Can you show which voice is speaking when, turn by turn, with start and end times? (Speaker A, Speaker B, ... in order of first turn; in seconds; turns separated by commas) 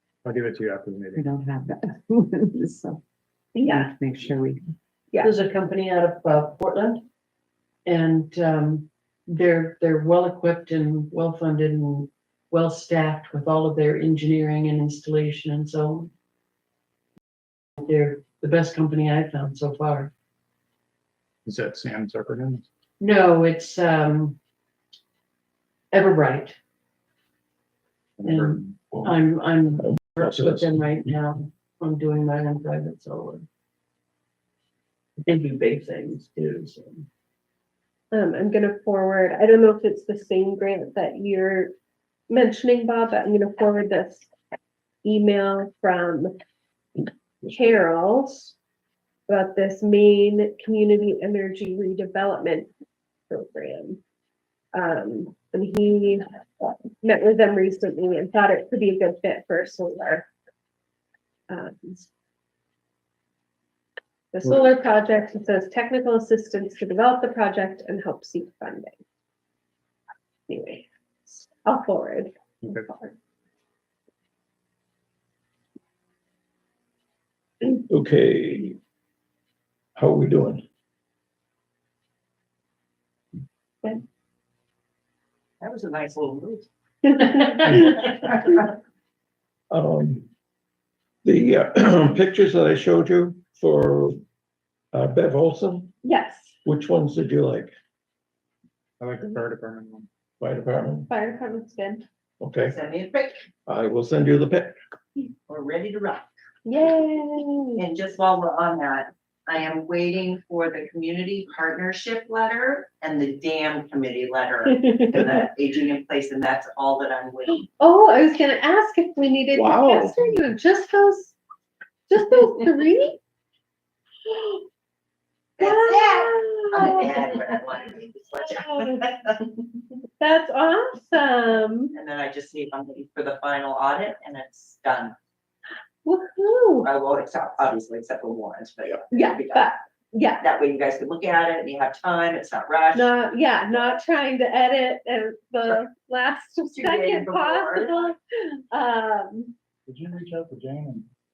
Speaker A: 0.2-1.2, Speaker B: 1.1-3.0, Speaker C: 3.5-3.9, Speaker B: 3.6-4.6, Speaker D: 5.2-7.0, Speaker D: 7.8-16.1, Speaker D: 17.8-20.1, Speaker A: 21.4-22.6, Speaker D: 23.0-24.4, Speaker D: 25.9-26.6, Speaker A: 28.2-28.9, Speaker D: 28.2-33.5, Speaker E: 28.9-29.2, Speaker E: 29.8-31.1, Speaker D: 35.2-37.1, Speaker C: 38.1-41.7, Speaker C: 42.3-44.3, Speaker C: 45.0-46.3, Speaker C: 47.0-48.5, Speaker C: 49.3-52.7, Speaker C: 53.3-54.0, Speaker C: 54.7-56.3, Speaker C: 57.0-60.3, Speaker C: 61.5-62.1, Speaker C: 64.3-69.0, Speaker C: 70.5-73.1, Speaker E: 77.9-78.8, Speaker E: 80.0-80.6, Speaker F: 85.6-88.7, Speaker E: 89.7-90.3, Speaker E: 91.2-94.2, Speaker E: 94.9-95.9, Speaker C: 96.0-96.5, Speaker E: 96.6-97.8, Speaker A: 99.0-100.1, Speaker E: 100.4-101.1, Speaker C: 101.1-102.0, Speaker E: 102.4-102.8, Speaker F: 102.6-103.4, Speaker E: 103.7-104.8, Speaker F: 105.5-106.3, Speaker C: 106.6-107.8, Speaker F: 107.8-117.7, Speaker C: 117.8-121.3, Speaker E: 119.5-120.2, Speaker C: 122.1-123.2, Speaker C: 124.2-124.6, Speaker F: 125.6-129.3, Speaker C: 125.6-127.5, Speaker C: 128.4-129.0, Speaker C: 130.2-132.0, Speaker F: 131.9-135.2, Speaker C: 136.0-136.9, Speaker F: 136.8-139.7, Speaker C: 139.1-140.4, Speaker F: 140.4-143.1, Speaker C: 142.9-149.5, Speaker F: 146.7-147.9, Speaker A: 149.9-151.1